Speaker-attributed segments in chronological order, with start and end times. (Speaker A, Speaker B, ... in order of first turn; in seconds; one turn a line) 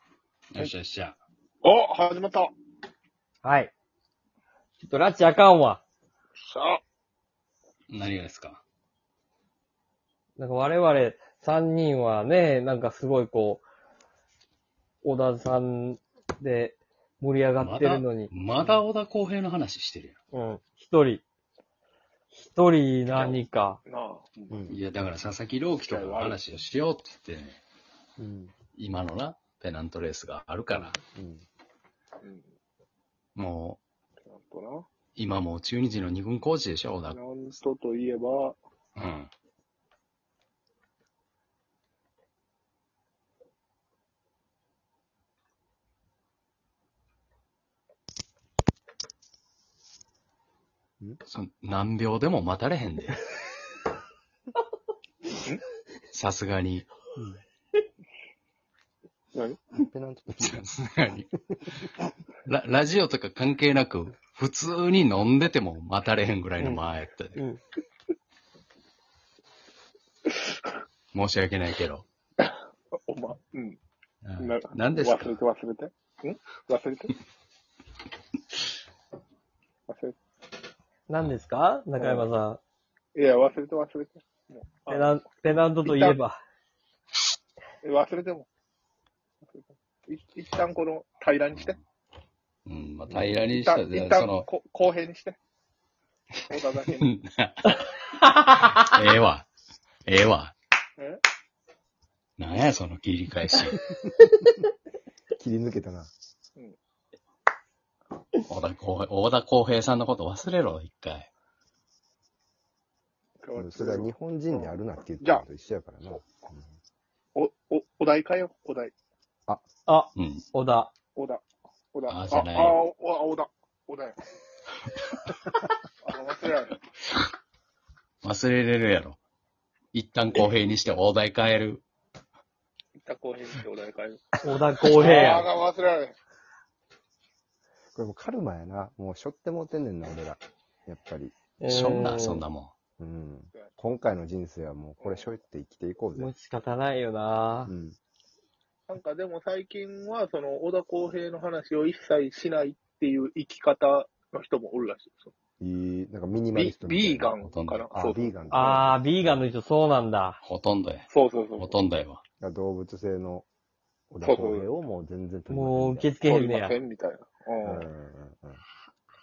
Speaker A: 0.5-1.2
Speaker B: 1.6-2.5
Speaker C: 3.4-3.7
Speaker C: 4.8-5.8
Speaker B: 6.4-6.8
Speaker A: 7.9-8.6
Speaker C: 10.4-13.6
Speaker C: 15.0-18.3
Speaker A: 17.6-20.2
Speaker C: 20.3-21.2
Speaker C: 22.3-23.8
Speaker B: 23.1-24.6
Speaker D: 24.5-24.8
Speaker A: 24.7-27.6
Speaker B: 25.9-26.4
Speaker D: 28.2-28.5
Speaker A: 28.7-31.0
Speaker D: 30.7-31.4
Speaker B: 32.2-32.5
Speaker A: 33.3-33.8
Speaker B: 34.2-34.9
Speaker A: 35.1-37.2
Speaker B: 37.1-38.6
Speaker A: 39.0-39.3
Speaker A: 51.2-53.2
Speaker A: 56.1-56.9
Speaker B: 59.3-59.6
Speaker D: 59.8-60.6
Speaker A: 60.4-61.9
Speaker A: 62.4-67.4
Speaker C: 67.3-67.6
Speaker A: 71.1-72.0
Speaker B: 72.4-73.8
Speaker A: 74.2-75.4
Speaker B: 74.4-77.2
Speaker B: 79.9-80.2
Speaker C: 81.1-82.6
Speaker B: 82.0-82.3
Speaker B: 83.1-85.3
Speaker C: 84.9-86.4
Speaker B: 85.8-86.2
Speaker B: 87.8-88.5
Speaker B: 89.4-91.8
Speaker A: 92.7-94.5
Speaker B: 93.1-95.4
Speaker B: 96.5-97.0
Speaker A: 97.0-97.8
Speaker A: 98.5-99.5
Speaker A: 100.0-100.5
Speaker A: 102.4-103.8
Speaker D: 105.4-106.1
Speaker A: 108.4-111.3
Speaker B: 113.4-115.4
Speaker D: 113.5-116.7
Speaker B: 117.3-118.9
Speaker C: 119.8-120.9
Speaker A: 120.2-120.4
Speaker B: 121.2-124.2
Speaker A: 122.1-122.8
Speaker B: 126.0-126.8
Speaker A: 128.2-129.2
Speaker A: 129.9-131.8
Speaker B: 133.0-136.2
Speaker C: 134.4-135.5
Speaker D: 137.9-141.4
Speaker C: 141.6-142.4
Speaker A: 141.6-142.7
Speaker D: 143.0-146.3
Speaker B: 145.0-145.3
Speaker C: 146.2-147.7
Speaker D: 147.7-148.0
Speaker B: 148.9-155.3
Speaker D: 155.6-159.4
Speaker B: 156.5-158.9
Speaker A: 157.4-157.8
Speaker C: 158.5-160.4
Speaker A: 160.4-162.2
Speaker B: 161.1-161.8
Speaker D: 162.4-163.5
Speaker D: 164.1-166.1
Speaker B: 164.2-164.7
Speaker C: 165.5-166.8
Speaker B: 166.2-167.9
Speaker D: 167.6-168.6